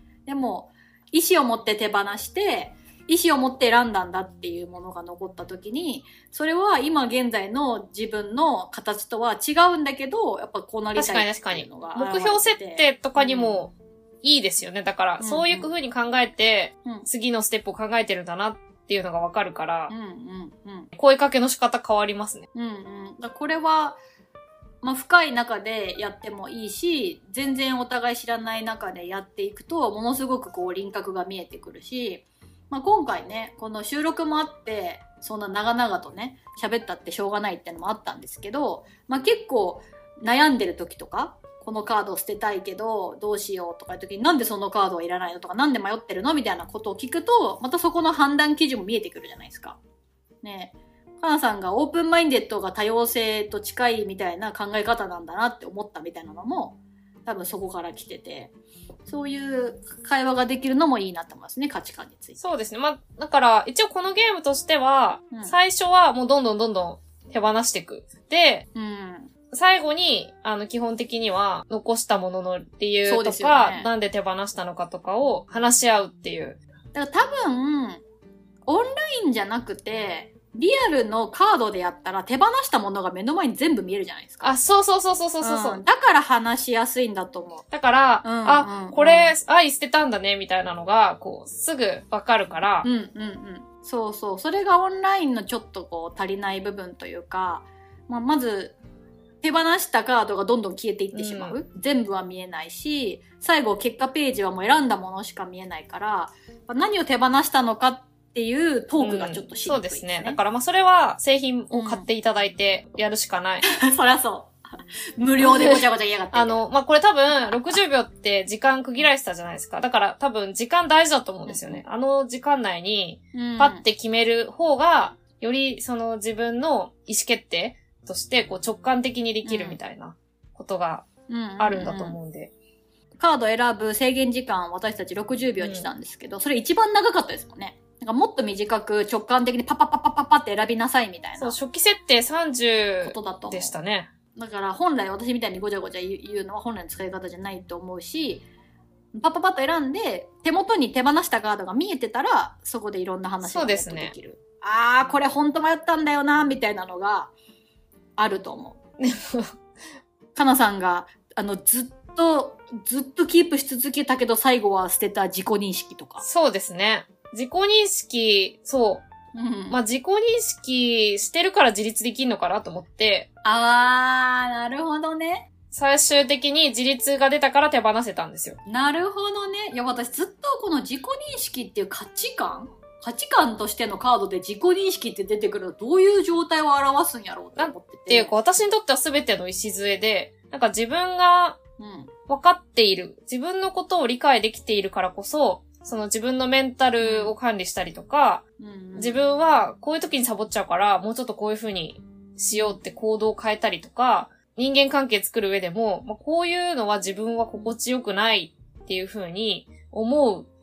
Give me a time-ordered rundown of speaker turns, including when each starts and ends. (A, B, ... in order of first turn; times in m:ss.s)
0:00.2-0:13.6 A
0:11.0-0:19.9 B
0:15.2-0:15.7 A
0:19.9-0:20.9 A
0:21.0-0:22.4 B
0:22.5-0:24.0 A
0:24.8-0:49.8 A
0:50.4-0:58.5 A
0:59.1-1:02.4 A
1:02.4-1:08.6 B
1:08.7-1:09.3 A
1:09.5-1:16.6 B
1:13.0-1:13.9 A
1:16.9-1:18.0 A
1:18.7-1:24.5 A
1:24.4-1:25.8 B
1:25.4-1:27.6 A
1:27.7-1:32.9 B
1:28.2-1:29.3 A
1:32.8-1:38.8 A
1:39.4-1:50.4 A
1:41.1-1:41.5 B
1:49.0-1:53.6 B
1:51.7-1:52.0 A
1:53.6-1:54.5 A
1:55.2-1:56.6 A
1:55.4-1:55.7 B
1:56.3-2:11.1 B
2:01.4-2:01.8 A
2:03.3-2:03.8 A
2:09.4-2:09.8 A
2:11.3-2:12.2 A
2:11.6-2:12.5 B
2:13.2-2:21.6 A
2:15.6-2:15.9 B
2:21.4-2:24.1 B
2:23.0-2:23.7 A
2:24.3-2:28.4 A
2:29.1-2:37.3 A
2:33.4-2:34.1 B
2:38.2-2:38.8 A
2:39.0-2:39.5 B
2:40.3-2:46.2 A
2:46.2-2:49.0 B
2:49.3-2:49.8 A
2:49.7-2:53.3 B
2:53.4-2:55.5 A
2:55.7-2:58.6 B
2:58.6-3:08.3 A
3:07.6-3:11.6 B
3:11.8-3:12.1 A
3:12.3-3:18.4 B
3:17.0-3:17.3 A
3:18.6-3:19.3 A
3:19.0-3:30.5 B
3:22.5-3:22.8 A